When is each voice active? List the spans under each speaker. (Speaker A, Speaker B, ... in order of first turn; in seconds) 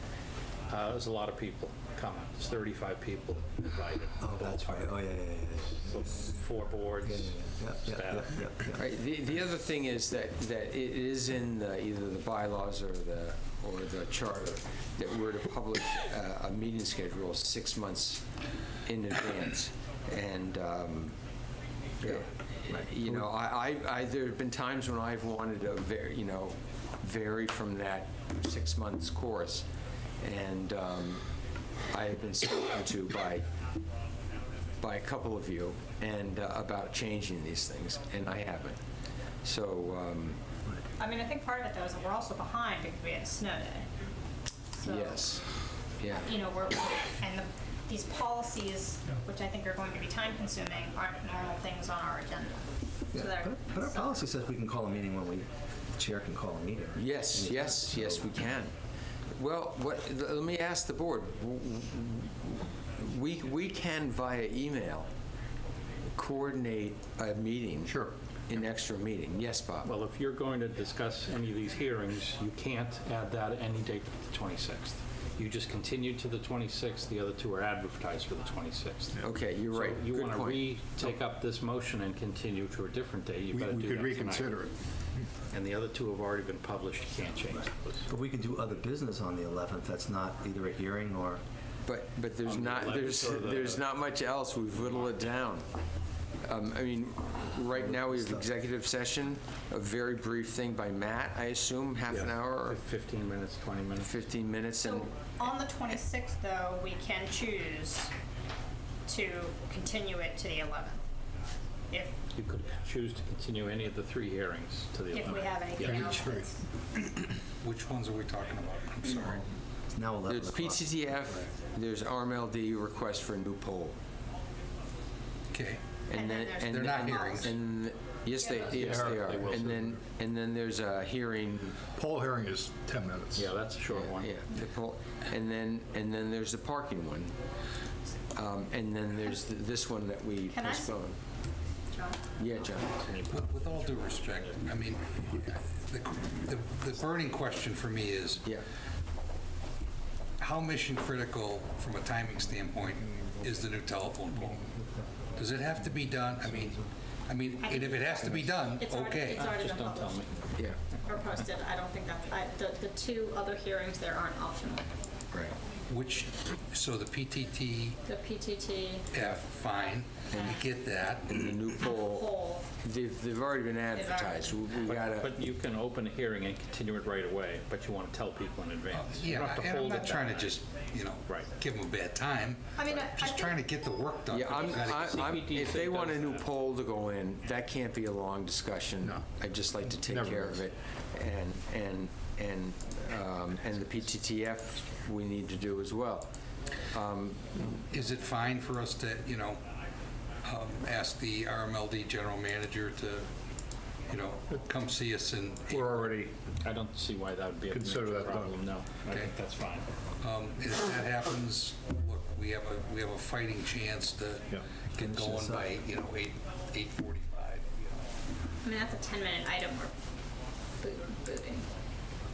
Speaker A: 0.7-5.0, 5.7-8.4, 69.8-84.6, 85.5-88.0, 92.4-93.8, 102.1-104.1, 112.3-116.1, 128.7-129.6, 133.3-134.3, 142.6-144.7, 159.3-160.3, 174.8-180.6, 184.6-186.4, 206.6-209.9
Speaker B: 4.2-6.4, 7.0-8.8, 22.7-23.2, 53.1-58.4, 88.1-91.4, 97.7-98.5, 120.0-121.2, 215.0-215.8
Speaker C: 8.7-18.2, 18.9-21.1, 22.0-29.6, 30.2-31.2, 31.9-33.4, 34.8-38.8, 39.4-40.4, 44.8-45.4, 46.0-46.3, 57.0-58.7, 59.4-65.0, 66.2-69.9, 79.2-80.6, 91.8-95.6, 96.4-102.8, 104.0-105.1, 120.3-123.9, 126.1-131.8, 133.9-137.3, 138.3-141.2, 142.4-142.9, 171.3-172.2, 172.8-175.3, 184.3-196.3, 196.9-197.8
Speaker D: 41.0-43.8, 44.8-45.2, 46.3-52.5, 53.1-54.1, 104.8-108.1, 109.1-111.0, 115.1-116.5, 126.1-127.5, 128.4-128.8, 140.5-140.9, 141.9-142.2, 157.6-160.2, 161.1-164.9, 168.1-169.1, 170.3-170.7, 171.8-172.7, 173.9-174.7, 182.8-183.6, 218.6-219.9, 220.8-221.7
Speaker E: 67.8-68.1, 117.6-119.4, 125.5-125.8, 126.6-127.5, 143.3-148.4, 150.4-154.7, 155.4-159.5, 165.9-168.0, 169.1-171.5, 178.9-185.4, 197.9-199.6, 200.4-203.3, 204.1-206.1, 210.2-217.7
Speaker F: 83.5-84.7, 115.8-116.5, 128.8-130.0, 131.9-133.5, 189.8-190.6, 205.7-206.3, 207.7-208.6